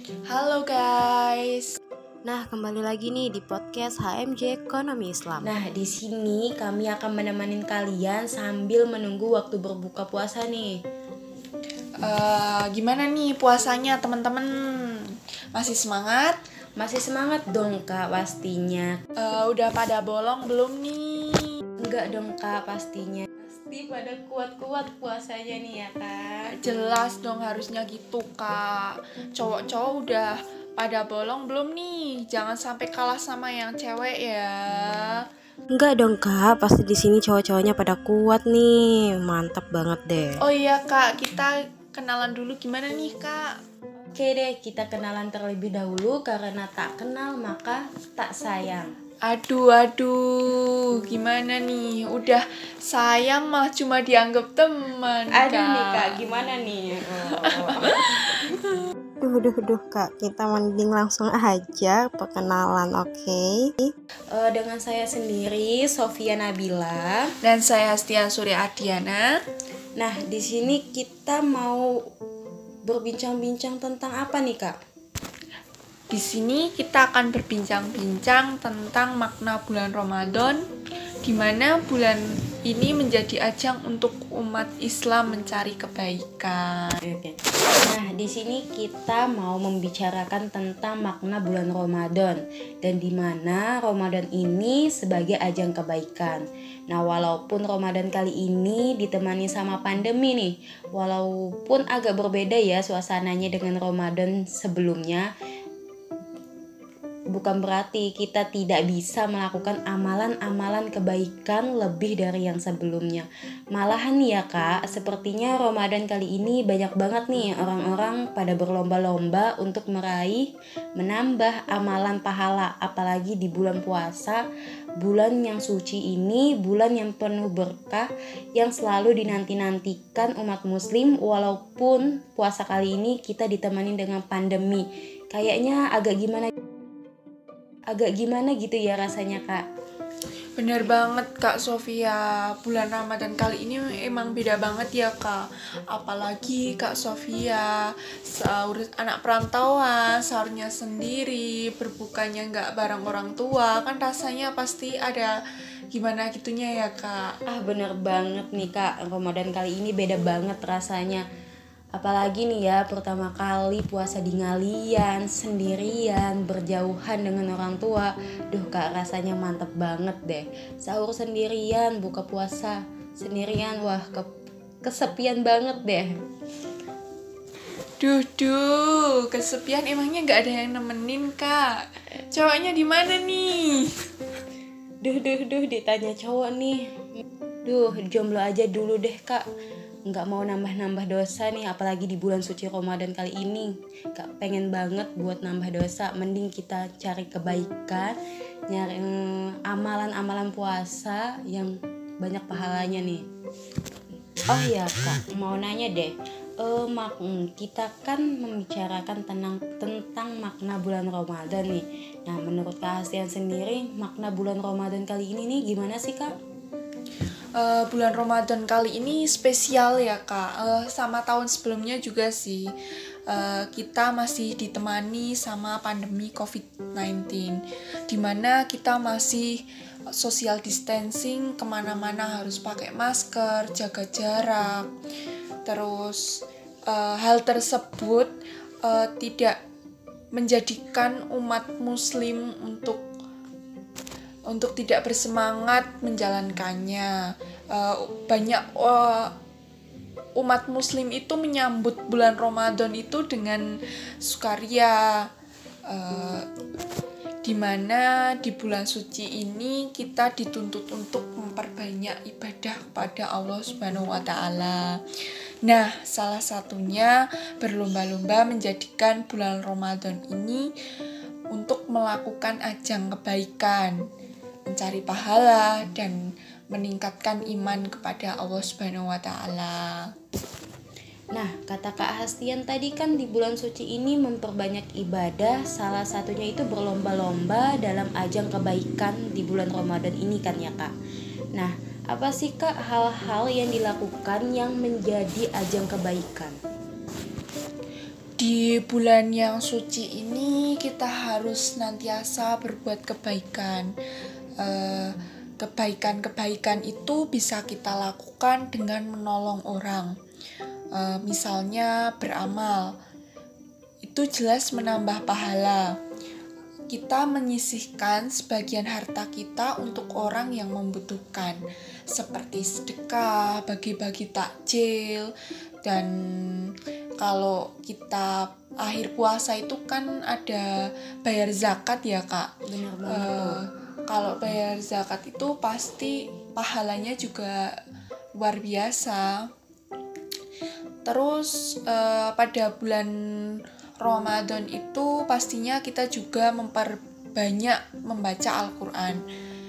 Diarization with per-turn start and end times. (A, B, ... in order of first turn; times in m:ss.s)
0:00.3-0:01.7 A
0:02.2-0:05.5 B
0:05.4-0:10.8 C
0:12.0-0:16.4 A
0:16.8-0:19.0 C
0:19.2-0:21.5 A
0:21.8-0:26.6 C
0:26.5-0:35.2 A
0:35.7-0:40.4 B
0:40.4-0:43.5 A
0:44.1-0:48.9 C
0:49.3-0:56.2 A
0:55.3-0:58.2 C
0:57.4-0:58.5 A
0:59.2-1:03.9 B
1:04.3-1:07.3 C
1:07.4-1:09.4 A
1:10.0-1:11.9 C
1:12.8-1:14.8 C
1:16.1-1:20.6 A
1:21.2-1:27.0 A
1:27.0-1:45.3 C
1:47.3-2:04.4 C
2:05.0-2:16.5 C
2:17.9-2:19.6 C
2:20.6-2:35.3 A
2:35.9-2:37.4 A
2:37.5-2:41.2 C
2:41.9-2:54.3 C
2:54.8-2:56.1 C
2:58.0-3:01.7 A
3:02.3-3:03.9 A
3:05.0-3:07.1 C
3:07.6-3:09.4 C
3:10.0-3:18.2 C
3:18.7-3:23.2 C
3:24.5-3:36.3 C
3:37.6-3:42.7 A
3:43.3-3:54.9 A
3:55.6-3:58.3 A
3:58.8-3:59.6 A
4:00.3-4:03.0 A
4:04.5-4:07.1 A
4:07.7-4:09.3 A
4:10.4-4:13.7 A
4:14.2-4:15.0 A
4:15.9-4:16.4 A
4:17.4-4:25.0 A
4:25.6-4:30.7 A
4:31.5-4:34.0 A
4:34.7-4:40.1 A
4:41.3-4:50.9 C
4:51.5-4:56.6 C
4:58.4-5:03.9 A
5:04.6-5:10.1 A
5:10.9-5:12.9 A
5:14.0-5:16.0 A
5:16.9-5:21.6 A
5:22.1-5:25.3 A
5:25.8-5:30.7 A
5:31.2-5:32.5 A
5:32.7-5:33.6 C
5:33.1-5:37.7 A
5:38.4-5:39.4 A
5:41.0-5:49.2 A